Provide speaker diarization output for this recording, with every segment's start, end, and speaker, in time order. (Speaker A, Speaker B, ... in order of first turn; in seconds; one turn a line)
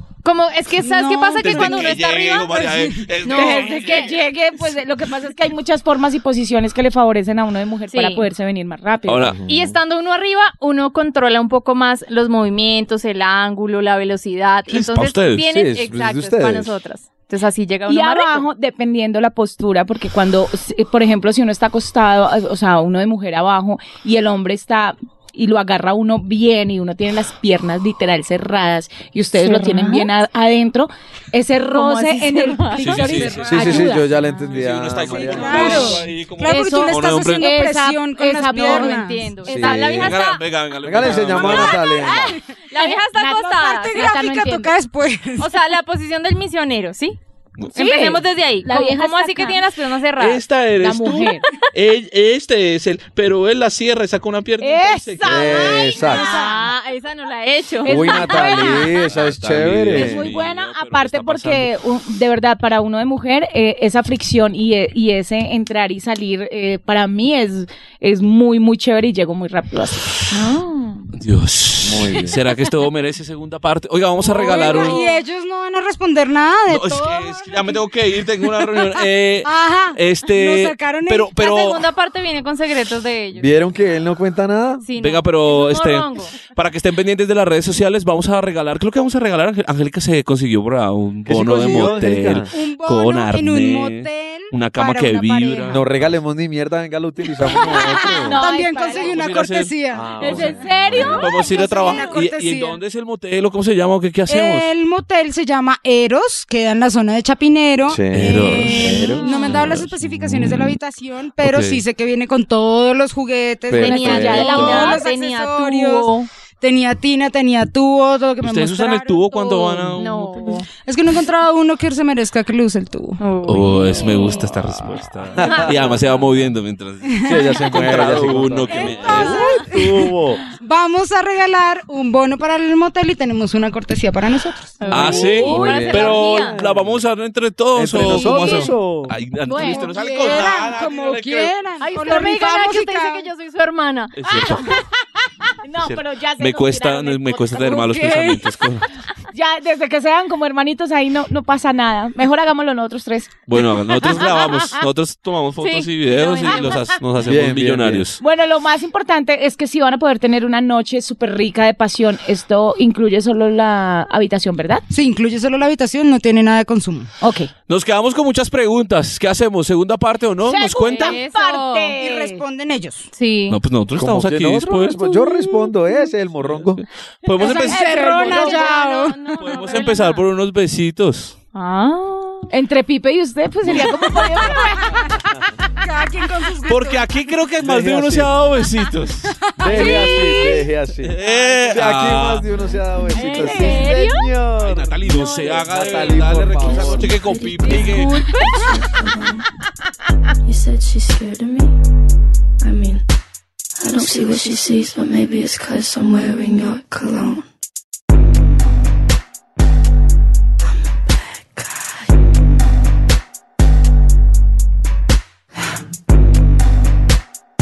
Speaker A: 0.2-2.6
Speaker B: 0.8-3.1
Speaker C: 1.4-4.2
Speaker A: 3.2-4.0
Speaker D: 3.3-9.3
Speaker A: 7.9-8.3
Speaker C: 9.1-9.4
Speaker E: 9.2-9.7
Speaker A: 9.5-18.4
Speaker C: 14.7-15.4
Speaker E: 15.5-16.8
Speaker D: 17.9-34.1
Speaker A: 29.4-30.1
Speaker A: 31.7-34.5
Speaker C: 32.8-37.5
Speaker E: 33.5-36.0
Speaker B: 35.2-39.2
Speaker D: 35.6-35.9
Speaker D: 36.4-39.1
Speaker A: 36.6-36.9
Speaker A: 38.5-40.4
Speaker E: 39.4-40.2
Speaker C: 39.5-41.8
Speaker E: 40.8-42.4
Speaker A: 41.4-44.0
Speaker D: 42.7-44.7
Speaker B: 43.3-45.5
Speaker A: 45.4-47.2
Speaker D: 47.7-49.6
Speaker A: 47.7-50.4
Speaker C: 50.2-55.6
Speaker D: 50.8-51.5
Speaker D: 54.6-56.5
Speaker E: 55.2-56.3
Speaker A: 55.9-58.7
Speaker B: 56.0-56.7
Speaker D: 57.8-59.1
Speaker E: 57.8-60.3
Speaker C: 58.8-61.7
Speaker D: 59.9-70.2
Speaker A: 70.3-71.1
Speaker C: 71.2-75.0
Speaker E: 71.8-72.4
Speaker B: 74.3-77.8
Speaker A: 74.3-75.1
Speaker C: 76.7-81.8
Speaker B: 78.4-81.3
Speaker A: 81.3-83.5
Speaker E: 83.3-84.8
Speaker A: 84.8-86.3
Speaker C: 85.0-96.0
Speaker E: 91.2-92.5
Speaker B: 92.5-95.8
Speaker E: 95.7-98.4
Speaker B: 97.5-102.8
Speaker D: 98.2-99.2
Speaker C: 98.9-99.7
Speaker E: 99.9-101.3
Speaker D: 100.2-102.1
Speaker C: 100.9-104.7
Speaker B: 104.3-120.0
Speaker E: 107.9-110.7
Speaker C: 108.1-110.8
Speaker A: 109.1-109.5
Speaker C: 111.4-111.8
Speaker E: 113.7-114.6
Speaker A: 113.8-116.3
Speaker D: 113.8-115.0
Speaker C: 118.4-120.6
Speaker A: 119.8-120.7
Speaker B: 120.8-123.2
Speaker A: 123.2-124.4
Speaker C: 123.4-129.8
Speaker E: 124.6-126.0
Speaker B: 127.1-127.8
Speaker E: 127.2-130.4
Speaker B: 128.7-135.5
Speaker A: 128.7-129.5
Speaker A: 134.8-136.6
Speaker C: 134.9-141.6
Speaker E: 135.4-137.0
Speaker E: 137.7-139.1
Speaker D: 139.5-139.9
Speaker B: 139.6-143.3
Speaker D: 141.8-142.6
Speaker A: 141.8-144.2
Speaker C: 144.2-144.8
Speaker D: 144.3-148.0
Speaker C: 145.8-148.9
Speaker B: 147.6-148.5
Speaker D: 149.3-154.5
Speaker C: 153.5-158.2
Speaker A: 155.6-156.9
Speaker E: 157.2-158.1
Speaker D: 158.2-164.8
Speaker B: 164.9-167.1
Speaker D: 167.2-167.5
Speaker C: 167.7-171.2
Speaker D: 170.4-172.4
Speaker A: 170.8-171.9
Speaker B: 172.0-173.1
Speaker A: 173.1-173.6
Speaker C: 173.5-175.0
Speaker E: 174.0-176.8
Speaker B: 175.0-175.8
Speaker C: 176.3-177.9
Speaker B: 177.4-179.3
Speaker D: 177.5-178.9
Speaker A: 178.1-180.2
Speaker C: 179.4-181.3
Speaker A: 181.5-182.5
Speaker D: 182.5-185.5
Speaker B: 183.7-185.1
Speaker B: 185.8-187.1
Speaker C: 186.7-189.4
Speaker E: 187.6-188.3
Speaker B: 189.3-190.7
Speaker E: 189.6-191.2
Speaker A: 189.7-190.5
Speaker C: 191.0-192.5
Speaker E: 191.7-197.2
Speaker A: 193.1-194.3
Speaker B: 193.1-194.0
Speaker C: 194.6-198.2
Speaker F: 196.8-199.4
Speaker B: 197.7-198.1
Speaker A: 197.7-198.6
Speaker F: 200.4-201.7
Speaker F: 202.6-203.0
Speaker F: 203.8-207.5
Speaker F: 211.0-212.1